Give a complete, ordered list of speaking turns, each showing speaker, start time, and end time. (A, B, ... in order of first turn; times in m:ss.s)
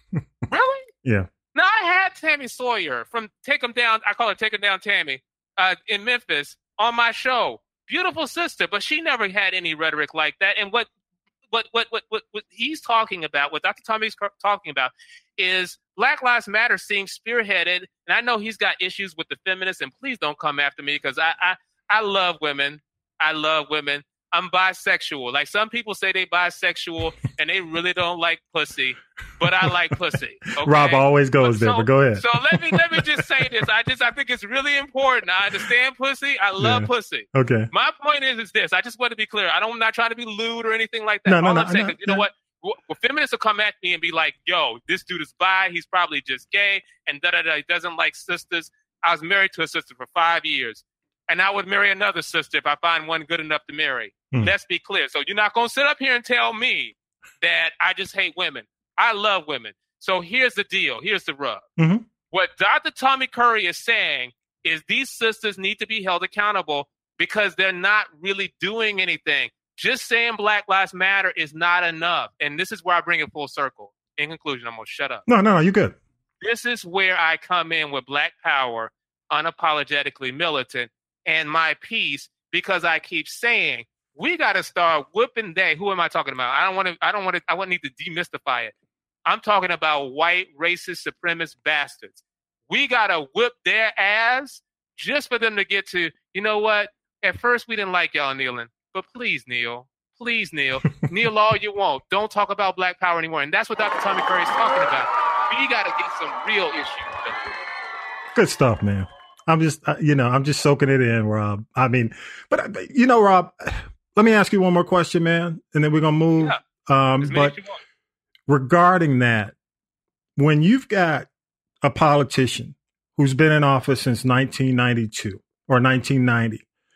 0:00.5-0:00.9 A
0:01.5-0:10.9 A
0:11.5-1:01.7 A
0:30.6-0:33.2 B
0:36.6-0:37.7 B
0:41.3-0:42.3 B
1:01.8-1:02.0 B
1:02.3-1:15.2 A
1:15.3-1:16.0 B
1:16.4-1:28.7 A
1:29.3-1:47.6 A
1:48.3-1:57.6 B
1:57.2-1:57.8 A
1:58.5-1:59.5 B
2:00.4-2:01.3 B
2:01.8-2:06.6 B